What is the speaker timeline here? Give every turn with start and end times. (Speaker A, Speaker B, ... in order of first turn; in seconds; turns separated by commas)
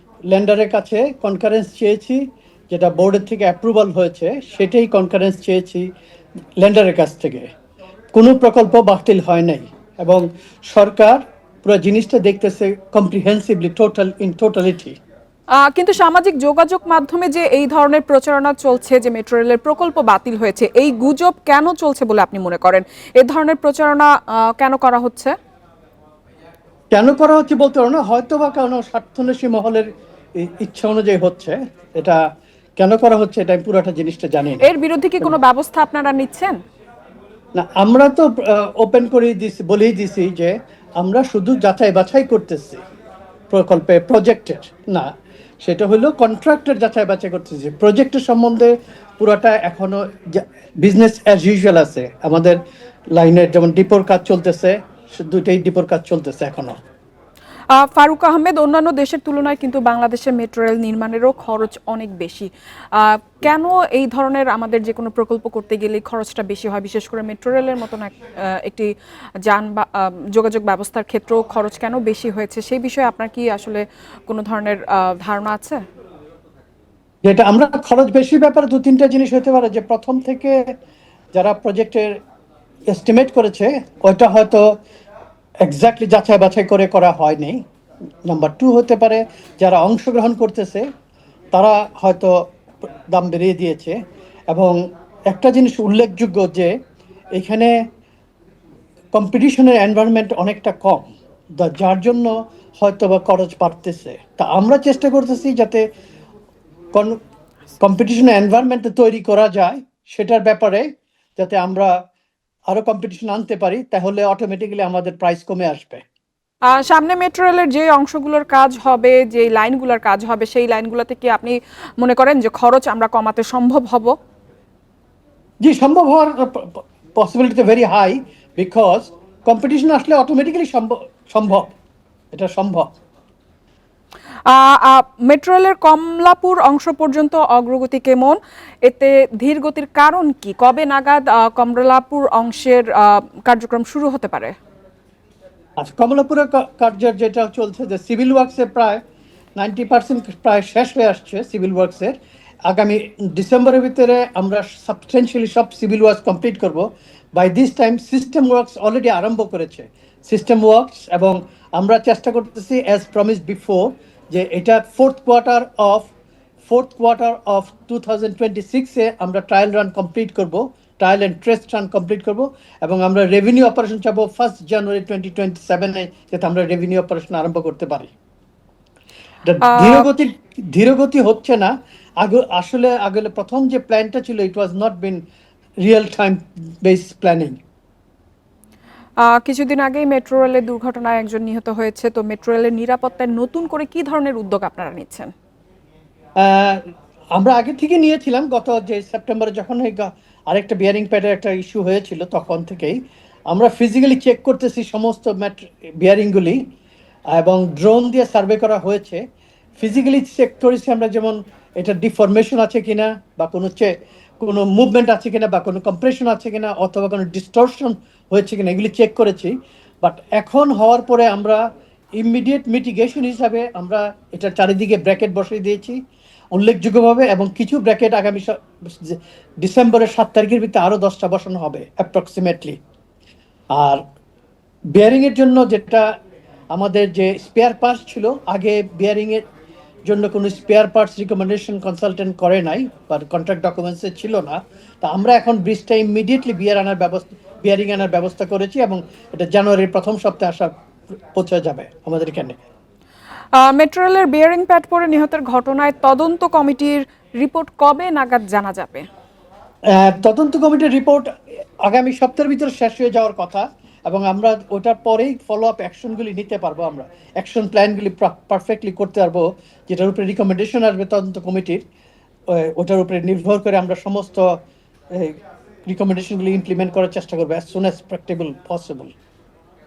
Speaker A: 0.3-5.8, Speaker A: 6.6-7.5, Speaker A: 8.1-15.0, Speaker B: 15.6-25.3, Speaker A: 26.9-29.9, Speaker A: 30.4-32.2, Speaker A: 32.8-34.7, Speaker B: 34.6-36.6, Speaker A: 37.6-42.8, Speaker A: 43.5-45.1, Speaker A: 45.6-52.6, Speaker A: 53.1-56.7, Speaker B: 57.7-68.9, Speaker B: 69.5-75.8, Speaker A: 77.2-80.6, Speaker A: 81.3-82.1, Speaker A: 82.9-84.7, Speaker A: 85.6-87.6, Speaker A: 88.3-90.9, Speaker A: 91.5-92.3, Speaker A: 93.1-94.0, Speaker A: 94.5-94.8, Speaker A: 95.3-96.7, Speaker A: 97.3-97.7, Speaker A: 99.1-105.8, Speaker A: 107.8-111.9, Speaker A: 112.7-116.0, Speaker B: 116.7-124.1, Speaker A: 125.6-131.7, Speaker A: 132.3-132.9, Speaker B: 134.5-144.5, Speaker A: 145.8-149.0, Speaker A: 149.6-152.2, Speaker A: 152.7-156.8, Speaker A: 157.4-166.1, Speaker A: 166.6-178.1, Speaker A: 179.4-185.2, Speaker B: 179.6-180.1, Speaker A: 185.8-187.6, Speaker B: 189.2-195.3, Speaker A: 196.4-196.8, Speaker A: 197.3-203.0, Speaker A: 203.5-206.6, Speaker A: 207.3-209.2, Speaker A: 209.8-221.6, Speaker A: 222.2-226.0, Speaker A: 226.5-232.8, Speaker A: 233.7-234.0, Speaker A: 234.9-236.1, Speaker A: 236.7-239.4, Speaker A: 240.1-250.7, Speaker A: 251.3-252.6, Speaker B: 253.6-259.1, Speaker A: 259.9-261.3, Speaker A: 261.9-271.8, Speaker A: 272.5-274.5, Speaker A: 275.9-279.1